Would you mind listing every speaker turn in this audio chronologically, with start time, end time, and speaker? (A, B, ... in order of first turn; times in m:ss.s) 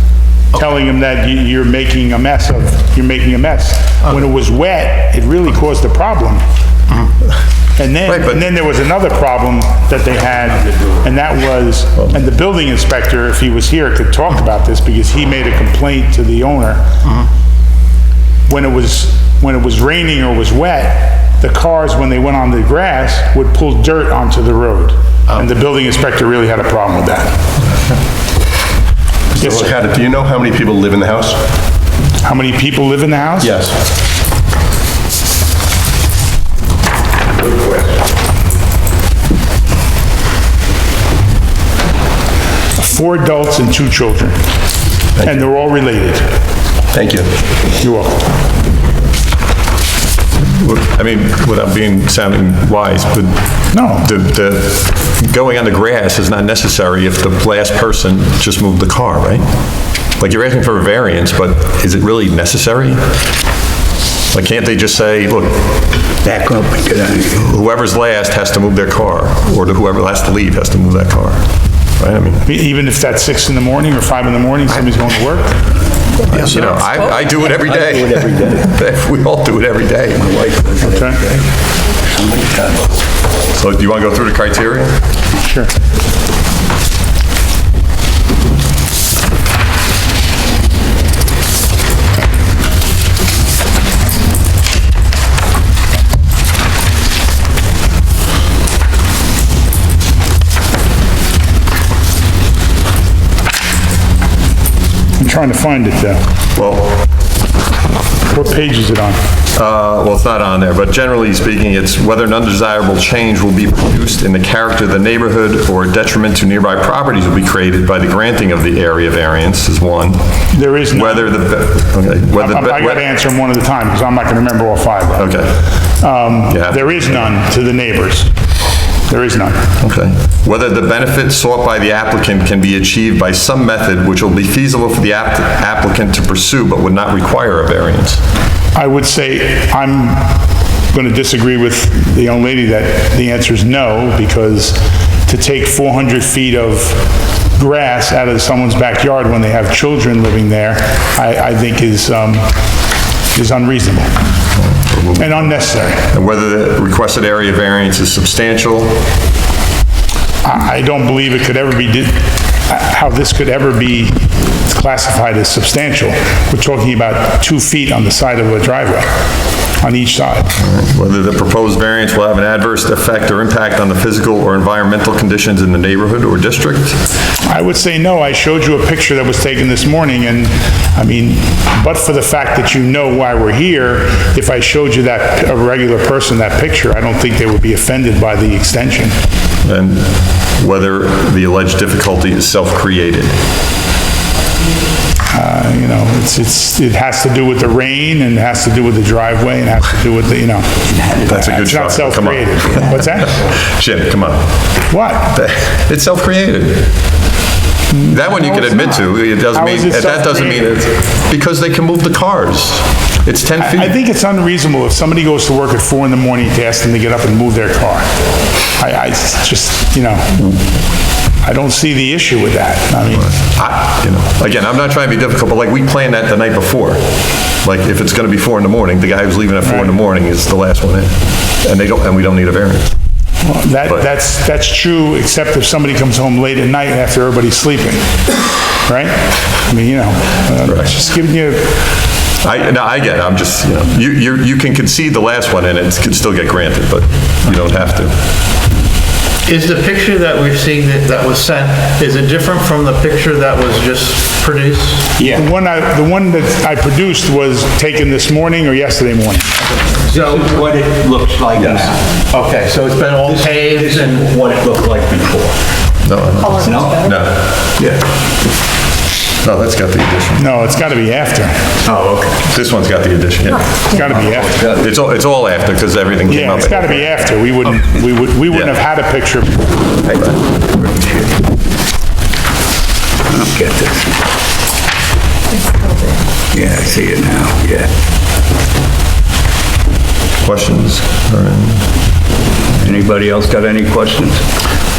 0:00.5-0:06.4 A
0:07.8-0:16.8 A
0:08.0-0:08.4 B
0:18.5-0:27.4 A
0:29.4-0:29.8 A
0:29.4-0:31.4 C
0:32.2-0:33.6 A
0:42.7-0:44.4 A
0:45.2-0:46.3 A
0:47.6-0:48.3 A
0:50.4-0:59.4 B
0:53.7-0:54.1 A
1:00.2-1:03.0 B
1:04.3-1:05.8 B
1:06.2-1:07.5 D
1:07.4-1:11.4 B
1:12.0-1:12.4 B
1:12.4-1:15.6 A
1:16.2-1:20.3 B
1:17.4-1:18.7 D
1:20.1-1:21.4 D
1:20.8-1:21.2 A
1:22.0-1:22.9 D
1:23.6-1:24.9 B
1:25.4-1:25.7 A
1:45.2-1:46.2 A
1:46.6-1:47.0 B
1:48.3-1:49.2 A
1:49.5-2:00.2 B
2:00.5-2:01.4 A
2:00.9-2:03.0 B
2:02.4-2:08.3 A
2:05.2-2:05.6 B
2:06.5-2:07.2 B
2:09.1-2:09.6 A
2:09.8-2:18.2 B
2:18.7-2:32.5 A
2:33.3-2:34.1 A
2:34.6-2:35.5 B
2:35.2-2:36.1 A
2:36.1-2:39.0 B
2:40.4-2:49.1 A
2:49.8-2:50.5 A
2:50.6-2:57.0 B
2:57.4-3:09.1 A
3:09.6-3:13.3 B
3:15.3-3:20.7 A
3:20.9-3:21.4 D
3:21.2-3:24.5 B
3:21.5-3:23.4 A
3:24.9-3:25.3 A
3:25.3-3:26.9 B
3:27.9-3:30.7 A
3:28.0-3:34.0 B
3:33.6-3:38.1 A
3:38.7-3:40.6 A
3:41.4-3:43.4 A
3:43.1-3:47.1 B
3:47.6-3:52.9 B
3:49.6-3:49.9 A
3:53.4-3:58.1 A
3:58.7-4:01.8 A
4:02.4-4:08.1 B
4:09.4-4:15.1 E
4:15.2-4:15.4 D
4:15.3-4:19.5 A
4:19.9-4:20.6 E
4:20.1-4:22.2 D
4:21.7-4:24.3 E
4:23.2-4:25.6 D
4:26.0-4:27.5 B
4:26.6-4:27.2 D
4:27.8-4:28.0 D
4:29.4-4:30.4 B
4:30.4-4:31.7 A
4:31.8-4:32.4 D
4:32.5-4:33.8 B
4:33.9-4:34.5 A
4:34.1-4:34.9 D
4:34.6-4:37.1 B
4:36.3-4:39.6 A
4:38.5-4:38.7 B
4:40.1-4:41.4 D
4:40.1-4:40.4 B
4:43.3-4:44.1 D
4:46.5-4:47.9 D
4:50.4-4:51.9 B
4:52.8-4:54.4 D